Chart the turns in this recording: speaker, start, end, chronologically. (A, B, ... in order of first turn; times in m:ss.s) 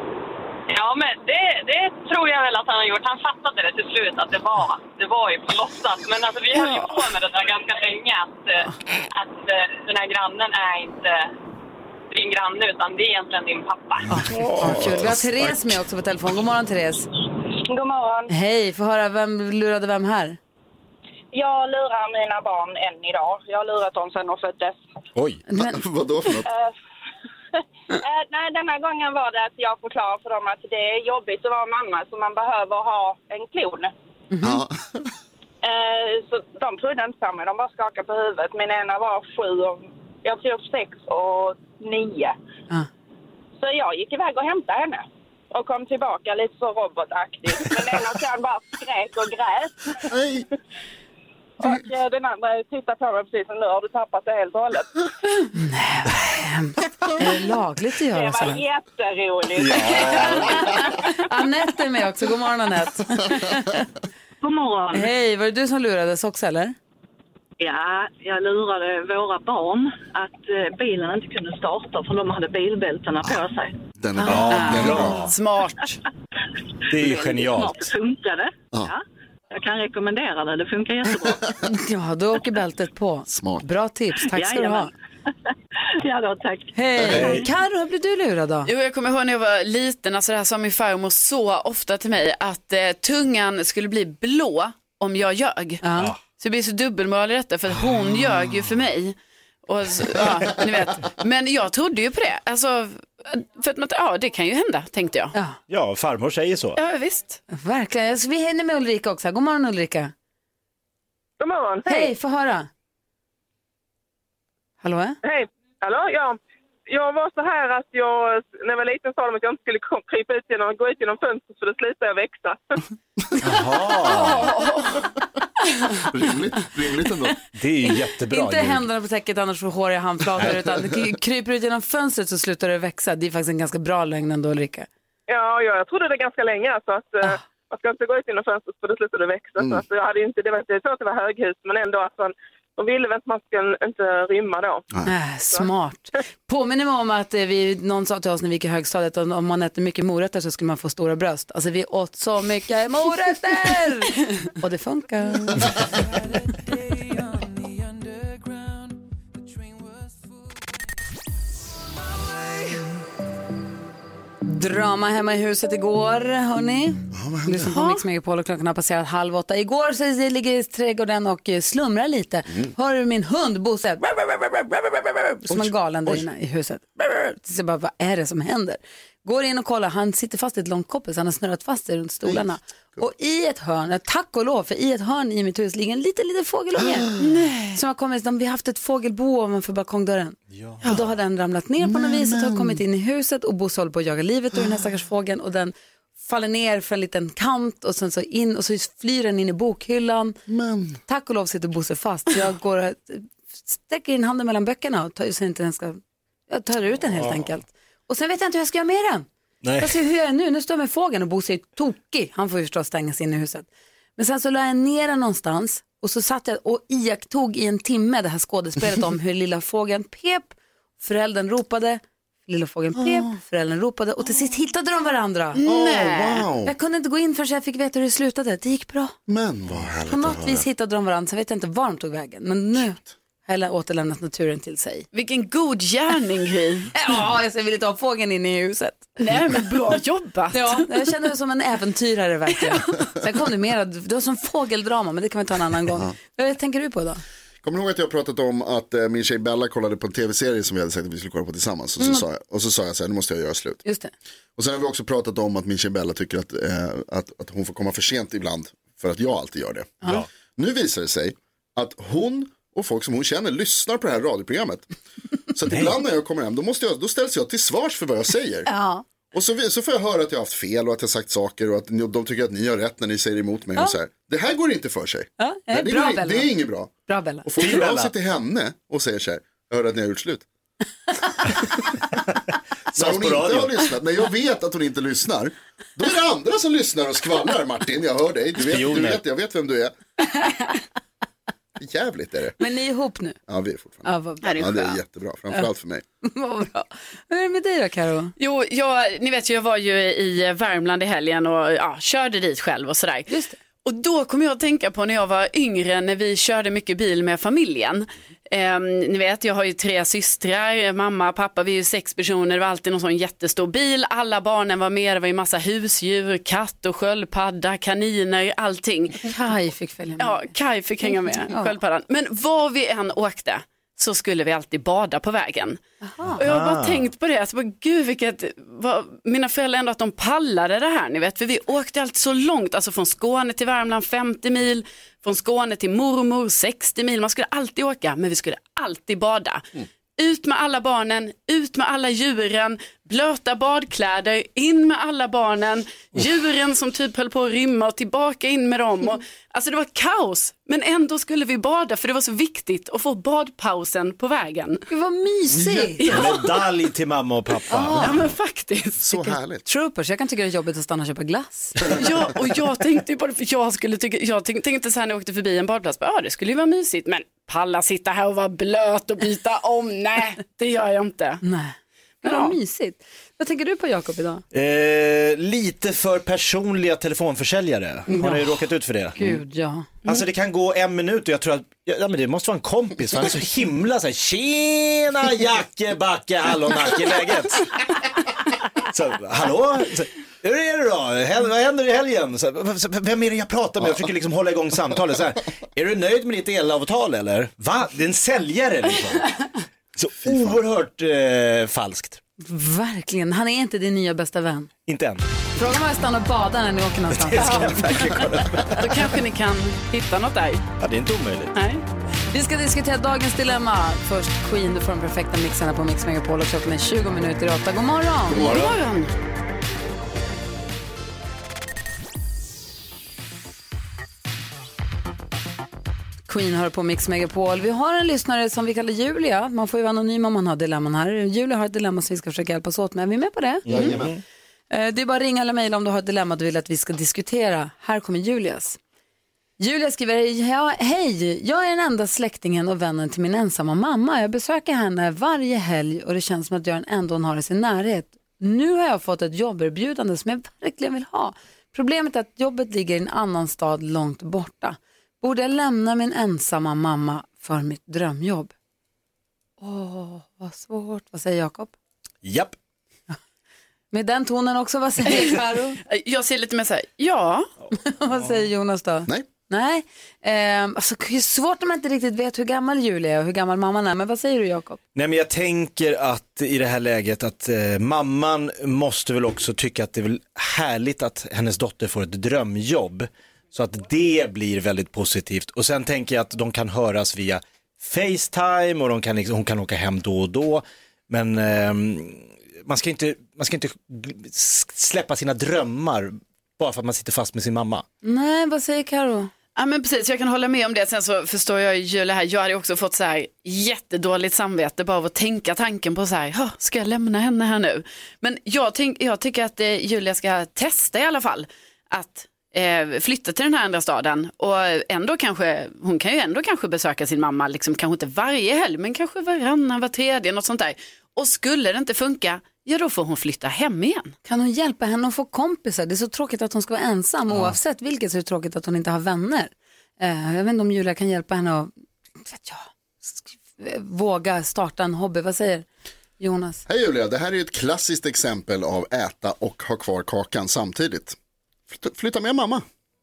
0:00.7-0:11.3 A
0:12.1-0:14.1 A
0:14.1-0:15.2 B
0:14.1-0:17.1 C
0:17.6-0:18.3 D
0:18.3-0:20.4 C
0:21.3-0:24.8 D
0:25.2-0:25.4 E
0:25.5-0:25.8 C
0:25.6-0:26.5 B
0:26.4-0:26.7 D
0:28.0-0:33.9 D
0:34.3-0:34.6 C
0:34.4-0:35.1 B
0:35.6-0:42.4 D
0:43.6-0:50.0 D
0:50.1-0:50.4 B
0:51.6-0:54.9 D
0:55.5-0:58.6 C
0:58.1-1:00.8 D
0:59.6-1:00.9 E
1:00.7-1:03.9 C
1:04.4-1:05.1 F
1:04.9-1:06.8 C
1:07.6-1:13.8 F
1:14.0-1:15.3 B
1:14.3-1:15.3 E
1:14.3-1:16.0 G
1:16.9-1:17.9 E
1:16.9-1:21.5 F
1:21.2-1:21.6 B
1:21.6-1:24.9 C
1:23.3-1:23.6 B
1:24.2-1:24.9 F
1:26.0-1:27.5 F
1:26.8-1:28.7 C
1:27.1-1:27.5 E
1:28.7-1:39.2 G
1:35.8-1:36.1 C
1:39.7-1:45.3 G
1:45.3-1:45.6 C
1:45.7-1:46.8 E
1:46.8-1:47.4 G
1:47.5-1:50.1 C
1:51.4-1:52.1 H
1:51.9-1:52.7 C
1:54.8-1:55.2 C
1:55.2-1:56.4 H
1:56.9-2:02.8 H
2:03.4-2:04.5 E
2:04.0-2:05.1 G
2:06.0-2:07.4 B
2:07.5-2:08.9 E
2:08.3-2:14.9 C
2:15.3-2:24.8 H
2:25.1-2:35.7 C
2:44.4-3:07.1 C
2:47.1-2:47.8 B
2:47.7-2:48.0 G
2:55.5-2:56.2 B
3:06.8-3:07.3 B
3:07.2-3:07.8 G
3:07.7-3:20.4 C
3:10.5-3:10.8 E
3:11.8-3:12.8 B
3:20.5-3:21.0 B
3:21.1-3:29.3 C
3:29.6-3:30.0 E
3:29.8-3:45.6 C
3:43.0-3:43.3 B
3:45.6-3:46.4 G
3:45.6-3:46.7 B
3:46.6-3:49.2 C
3:49.3-3:50.7 B
3:50.1-3:55.1 C
3:55.1-3:56.9 G
3:56.9-3:59.2 C
3:59.2-4:00.9 G
4:00.5-4:07.2 C
4:07.6-4:13.8 B
4:12.0-4:12.2 C
4:13.8-4:14.1 C
4:14.6-4:24.9 B
4:25.5-4:28.7 B
4:25.7-4:26.0 E
4:28.7-4:29.0 C
4:29.3-4:36.9 B
4:35.4-4:36.5 C
4:37.1-4:37.5 C
4:37.4-4:40.5 B
4:37.6-4:38.1 E
4:42.9-4:43.8 E
4:43.0-4:49.9 B
4:48.7-4:49.2 E
4:51.8-4:52.6 B
4:52.6-4:53.4 C
4:53.5-4:56.0 B
4:54.0-4:54.6 C
4:54.4-4:54.9 G
4:56.2-4:58.3 C
4:58.4-5:03.3 G
5:03.3-5:03.6 C
5:03.8-5:19.3 G
5:19.2-5:20.5 C
5:20.2-5:25.8 G
5:21.5-5:21.8 C
5:26.0-5:26.4 C
5:26.4-5:54.8 G
5:26.4-5:27.1 E
5:54.9-5:56.1 C
5:56.0-5:56.6 G
5:56.1-5:58.1 E
5:57.7-5:58.2 C
5:58.0-5:59.4 G
5:59.0-5:59.7 B
5:59.7-6:01.9 C
6:01.9-6:11.4 G
6:11.4-6:14.4 C
6:12.2-6:12.5 G
6:14.5-6:19.4 E
6:18.1-6:18.5 C
6:19.2-6:19.9 C
6:20.0-6:27.9 E
6:28.8-6:39.3 E
6:40.0-6:42.2 E
6:40.2-6:40.6 B
6:42.4-6:44.7 C
6:44.9-6:45.2 E
6:45.6-6:48.2 C
6:47.1-6:49.0 E
6:48.8-6:50.7 G
6:50.8-6:51.5 E
6:51.6-6:51.8 G
6:52.3-6:58.5 C
6:58.3-6:59.1 G
6:58.4-6:58.7 E
7:06.3-7:13.7 C
7:13.7-7:14.1 B
7:13.7-7:14.2 E
7:14.7-7:18.8 C
7:19.6-7:38.5 C
7:39.6-7:41.7 C
7:42.2-7:42.6 E
7:43.9-7:45.8 C
7:45.8-7:47.5 G
7:47.8-7:54.8 C
7:55.0-8:17.8 E
8:18.0-8:19.3 C
8:19.6-8:44.2 G
8:44.2-8:51.7 C
8:52.2-8:55.7 C
8:56.2-8:56.6 C
8:56.7-9:01.2 B
9:01.7-9:02.6 B